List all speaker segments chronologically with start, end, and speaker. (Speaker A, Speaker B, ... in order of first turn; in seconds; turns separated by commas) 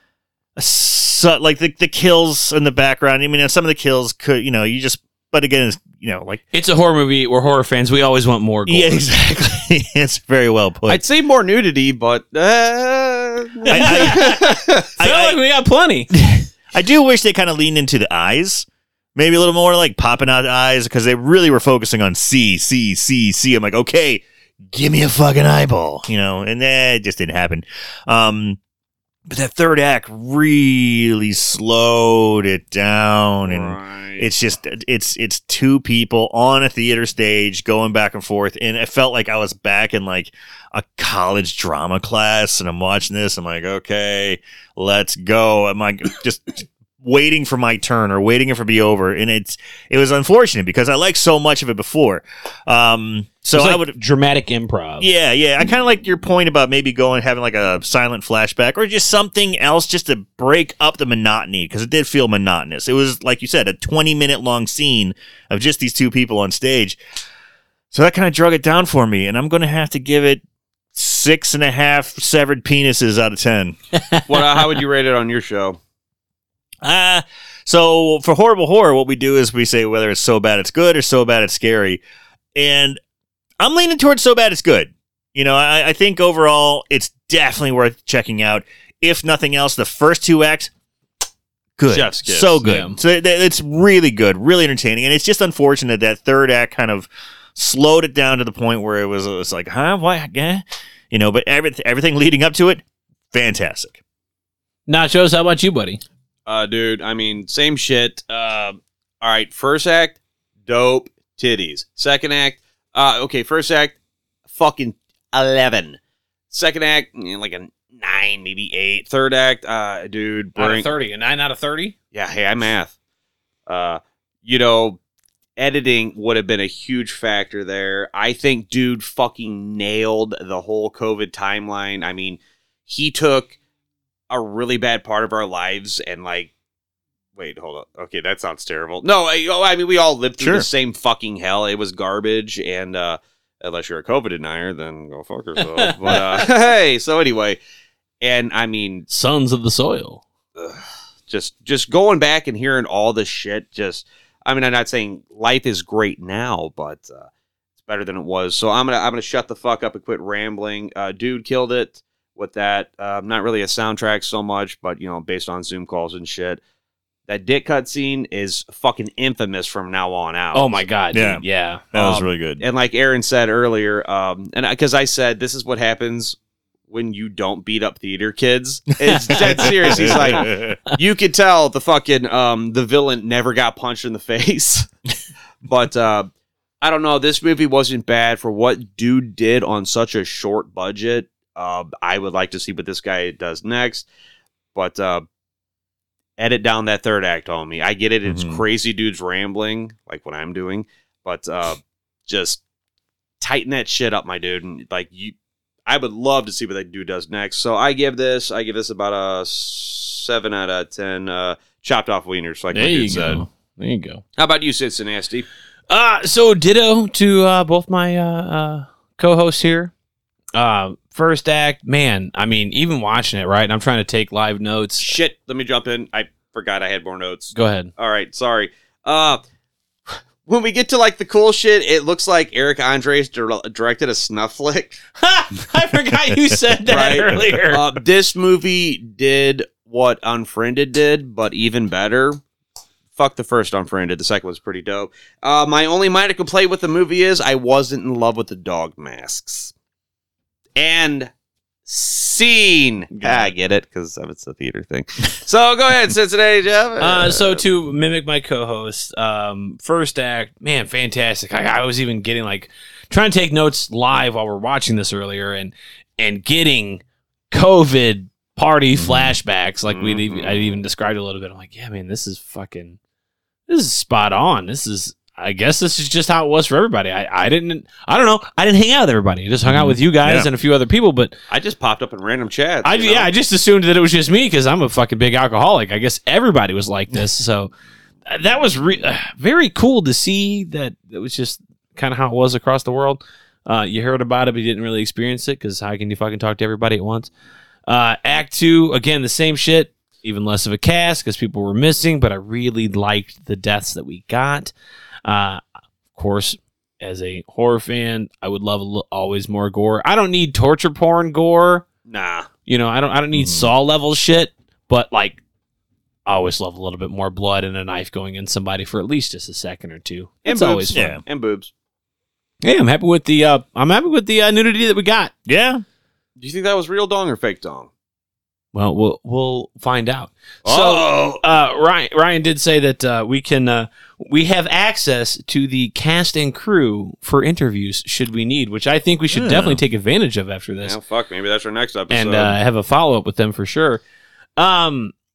Speaker A: 0.6-6.4, Speaker B: 6.5-9.1, Speaker A: 8.7-11.0, Speaker C: 10.9-14.9, Speaker B: 13.7-16.1, Speaker A: 13.7-14.4, Speaker A: 15.0-15.4, Speaker A: 16.1-28.6, Speaker A: 29.3-54.0, Speaker C: 33.4-34.3, Speaker B: 53.5-55.1, Speaker A: 55.0-67.0, Speaker A: 67.9-70.4, Speaker A: 70.9-73.8, Speaker C: 74.3-75.8, Speaker A: 76.8-82.0, Speaker A: 82.5-83.0, Speaker A: 83.6-90.7, Speaker A: 91.8-104.0, Speaker C: 91.9-92.7, Speaker B: 92.6-93.0, Speaker B: 104.9-106.0, Speaker C: 106.5-114.0, Speaker C: 114.5-116.0, Speaker C: 116.5-120.9, Speaker B: 120.6-122.0, Speaker C: 122.1-122.9, Speaker C: 123.7-125.0, Speaker C: 125.6-133.6, Speaker C: 134.3-136.5, Speaker C: 137.4-147.6, Speaker A: 140.4-140.7, Speaker B: 146.1-146.4, Speaker C: 148.2-149.1, Speaker B: 149.1-150.2, Speaker C: 150.6-157.3, Speaker C: 157.8-166.6, Speaker C: 167.3-170.8, Speaker B: 170.5-172.3, Speaker A: 171.1-172.6, Speaker C: 172.6-176.4, Speaker C: 176.9-184.9, Speaker A: 179.0-180.8, Speaker B: 179.1-181.0, Speaker C: 185.7-186.3, Speaker C: 186.8-194.1, Speaker C: 194.8-195.3, Speaker C: 196.4-202.6, Speaker A: 198.3-198.6, Speaker C: 203.4-205.3, Speaker C: 205.9-213.5, Speaker B: 212.7-214.2, Speaker C: 214.4-215.5, Speaker B: 215.9-219.9, Speaker B: 220.6-225.1, Speaker C: 225.0-229.4, Speaker B: 227.5-227.9, Speaker C: 230.1-235.0, Speaker B: 235.2-237.8, Speaker A: 236.1-236.8, Speaker C: 236.9-242.4, Speaker C: 243.2-249.7, Speaker C: 250.8-251.3, Speaker C: 251.9-257.6, Speaker B: 257.0-273.0, Speaker A: 269.0-269.4, Speaker C: 269.9-270.8, Speaker B: 273.7-281.3, Speaker A: 279.7-280.5, Speaker C: 281.5-283.3, Speaker B: 282.8-287.7, Speaker B: 288.3-297.3, Speaker B: 297.9-304.7, Speaker B: 305.2-305.6, Speaker B: 306.1-311.9, Speaker C: 312.1-312.5, Speaker B: 312.7-315.4, Speaker A: 313.3-313.7, Speaker B: 316.3-321.2, Speaker C: 320.4-321.7, Speaker A: 320.9-321.2, Speaker B: 322.6-325.3, Speaker A: 325.5-325.8, Speaker C: 326.4-327.9, Speaker B: 328.7-341.0, Speaker C: 330.6-331.4, Speaker A: 339.3-339.8, Speaker C: 340.8-342.6, Speaker B: 342.1-344.0, Speaker B: 344.6-345.1